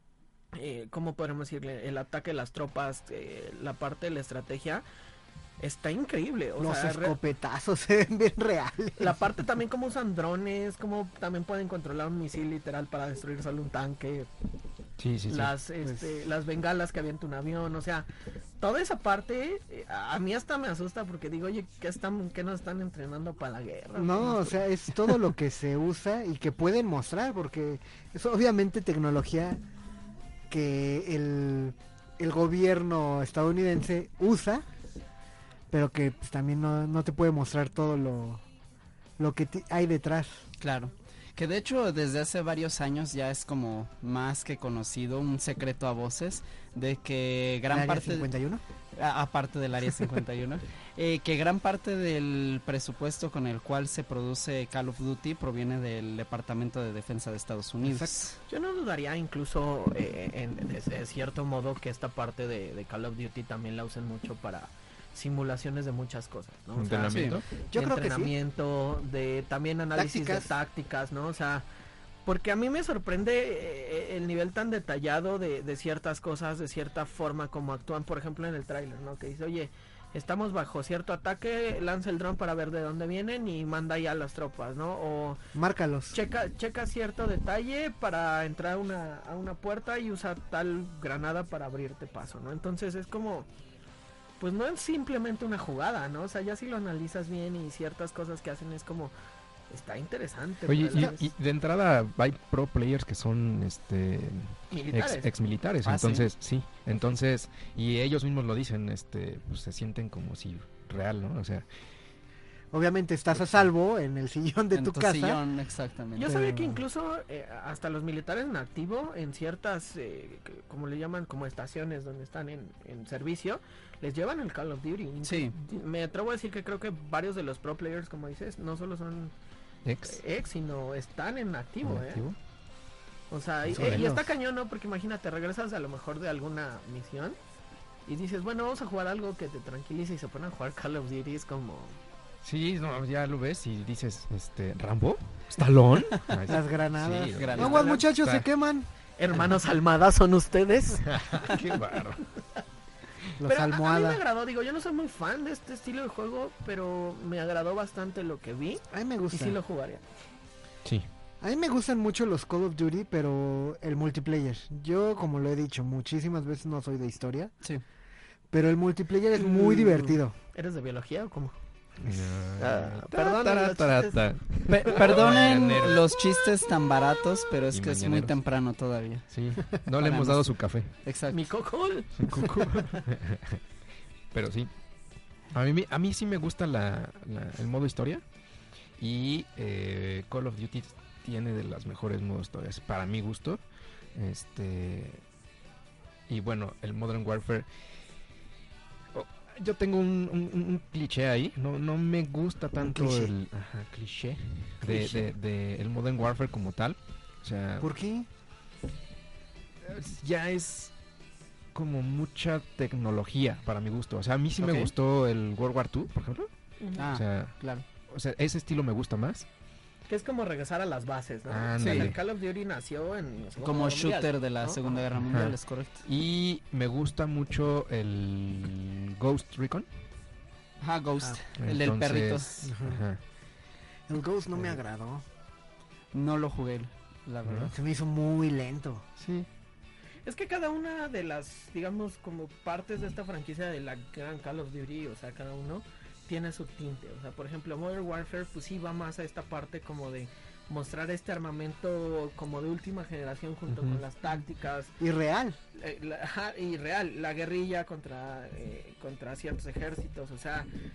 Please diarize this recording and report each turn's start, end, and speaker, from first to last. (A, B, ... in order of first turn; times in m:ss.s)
0:00.5-0:04.8 A
0:05.6-0:07.2 A
0:06.6-0:09.2 B
0:09.0-0:14.3 A
0:15.0-0:15.6 C
0:15.3-0:18.1 A
0:15.8-0:16.1 B
0:18.6-0:25.1 A
0:24.0-0:29.6 B
0:30.5-0:34.6 B
0:35.7-0:38.4 B
0:39.2-0:40.4 B
0:40.6-0:48.3 D
0:47.7-0:48.6 B
0:49.0-0:58.4 D
0:57.8-0:58.3 B
0:58.5-1:11.6 A
1:06.8-1:07.5 C
1:07.1-1:07.4 D
1:07.7-1:08.4 B
1:09.9-1:10.5 B
1:12.2-1:25.4 A
1:25.5-1:26.2 B
1:26.1-1:33.5 A
1:34.4-1:39.1 A
1:39.7-1:41.3 A
1:40.7-1:51.7 C
1:44.7-1:45.3 A
1:45.8-1:46.3 D
1:52.7-1:55.4 B
1:54.7-1:56.8 D
1:56.2-2:09.3 A
2:05.2-2:05.5 D
2:09.8-2:10.2 C
2:10.0-2:12.2 A
2:11.8-2:12.4 C
2:13.3-2:17.4 A
2:13.7-2:14.3 C
2:18.1-2:22.0 A
2:22.4-2:28.5 C
2:26.5-2:28.9 B
2:27.3-2:28.0 D
2:27.6-2:28.1 A
2:29.2-2:32.0 A
2:31.0-2:32.2 C
2:33.4-2:34.2 B
2:33.4-2:40.0 A
2:38.9-2:39.6 B
2:41.4-2:47.5 B
2:48.5-2:50.4 B
2:50.5-2:51.5 A
2:52.0-2:56.1 C
2:52.6-2:54.2 A
2:54.7-3:01.4 D
2:57.7-2:58.4 C
2:59.3-3:01.0 C
3:01.3-3:03.0 A
3:02.2-3:03.6 C
3:04.3-3:04.7 C
3:05.5-3:08.2 C
3:09.0-3:13.6 C
3:14.1-3:15.2 C
3:16.3-3:17.7 C
3:19.1-3:27.9 C
3:22.8-3:23.3 B
3:24.8-3:25.3 D
3:27.8-3:28.3 B
3:29.8-3:30.9 C
3:31.7-3:36.5 C
3:34.6-3:34.9 D
3:36.8-3:37.1 A
3:37.0-3:37.8 D
3:37.1-3:39.5 C
3:40.1-3:45.0 A
3:41.5-3:42.2 C
3:41.8-3:42.1 D
3:43.6-3:46.1 D
3:45.2-3:49.9 C
3:50.8-3:52.8 D
3:51.6-3:53.2 C
3:52.6-3:53.0 B
3:54.1-3:55.2 B
3:56.1-3:57.7 D
3:57.4-3:57.7 C
3:57.7-3:59.1 B
3:59.2-3:59.5 C
4:00.2-4:14.9 A
4:13.7-4:14.0 C
4:15.0-4:15.6 B
4:15.8-4:20.7 A